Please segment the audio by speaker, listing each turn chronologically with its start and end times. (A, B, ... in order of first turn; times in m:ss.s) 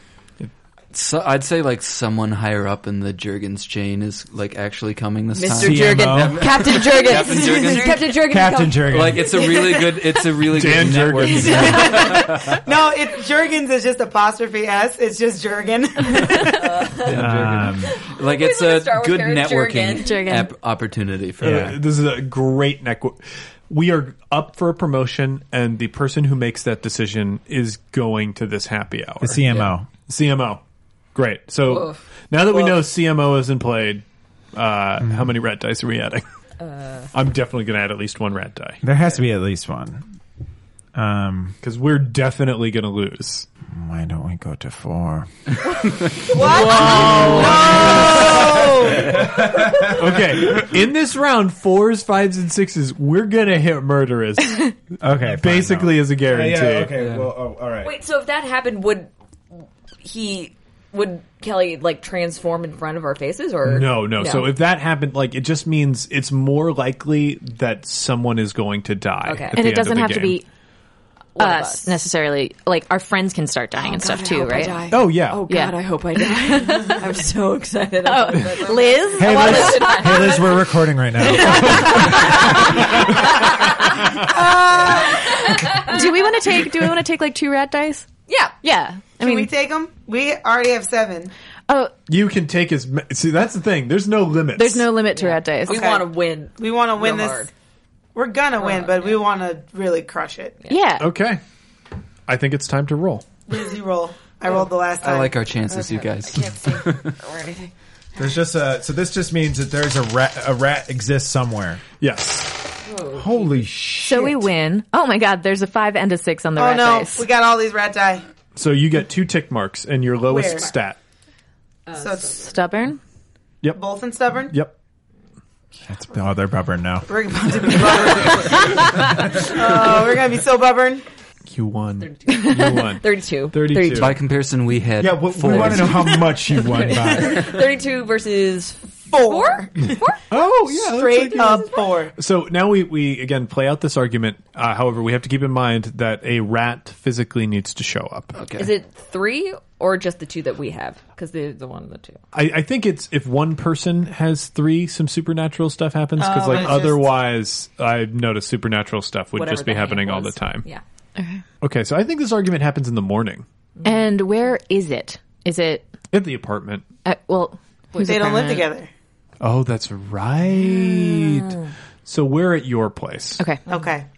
0:00.9-0:08.1 A
0:05.3-0:09.8 B
0:05.6-0:06.9 C
0:07.1-0:08.0 D
0:08.2-0:09.4 C
0:08.8-0:12.6 A
0:09.4-0:09.9 D
0:10.5-0:12.2 E
0:11.4-0:12.4 B
0:11.7-0:16.8 D
0:16.4-0:17.2 B
0:17.0-0:21.8 A
0:17.1-0:18.0 C
0:17.8-0:20.4 B
0:20.0-0:20.5 F
0:21.4-0:30.6 E
0:29.2-0:29.9 C
0:31.1-0:36.2 E
0:31.6-0:32.0 B
0:35.0-0:35.3 C
0:36.6-0:37.1 B
0:37.1-0:38.8 E
0:38.8-0:40.0 C
0:40.9-0:41.6 C
0:41.6-0:43.5 E
0:43.7-0:45.3 C
0:46.0-0:49.3 A
0:46.3-0:49.2 D
0:46.4-0:48.6 B
0:47.8-0:50.6 C
0:49.8-0:54.7 E
0:55.0-0:57.9 C
0:55.4-0:56.9 E
0:57.0-0:57.3 A
0:57.8-1:04.5 B
1:03.6-1:10.4 E
1:09.2-1:09.6 B
1:09.5-1:10.4 F
1:11.3-1:12.0 B
1:11.4-1:15.8 F
1:13.8-1:23.8 B
1:14.9-1:15.4 E
1:16.3-1:17.0 F
1:18.0-1:20.3 F
1:19.2-1:23.2 C
1:21.5-1:22.5 F
1:23.9-1:25.9 D
1:24.8-1:26.1 B
1:25.6-1:28.1 F
1:28.3-1:28.5 B
1:28.6-1:29.5 F
1:29.2-1:31.3 D
1:31.7-1:31.9 F
1:32.1-1:34.9 E
1:34.6-1:35.9 F
1:35.1-1:37.5 B
1:35.7-1:37.5 D
1:38.1-1:40.6 D
1:38.6-1:39.2 B
1:40.7-1:41.1 F
1:41.0-1:41.4 E
1:42.3-1:43.2 E
1:43.5-1:45.4 D
1:45.0-1:47.1 A
1:45.7-1:47.7 B
1:48.2-1:51.8 C
1:52.0-1:52.6 E
1:52.8-1:53.7 B
1:53.1-1:54.4 C
1:54.0-1:57.3 F
1:56.6-1:58.2 D
1:58.6-2:01.0 E
2:00.3-2:00.7 D
2:01.9-2:02.4 B
2:02.0-2:02.5 D
2:02.2-2:03.0 F
2:03.7-2:04.6 D
2:04.5-2:04.7 E
2:05.9-2:07.1 C
2:07.1-2:11.0 D
2:11.5-2:14.1 E
2:12.0-2:14.2 B
2:12.4-2:12.7 F
2:13.9-2:16.2 A
2:15.0-2:17.5 C
2:16.2-2:20.2 B
2:16.8-2:17.5 D
2:19.1-2:20.0 D
2:20.3-2:28.3 E
2:20.6-2:22.1 D
2:28.3-2:28.7 A
2:28.6-2:32.2 B
2:32.3-2:40.6 E
2:36.2-2:37.1 D
2:39.3-2:40.8 B
2:41.2-2:41.4 F
2:41.6-2:43.4 E
2:43.8-2:45.9 F
2:46.1-2:46.8 E
2:47.0-2:48.7 F
2:48.0-2:48.9 D
2:49.4-2:53.4 E
2:53.4-2:53.6 F
2:53.7-2:54.0 D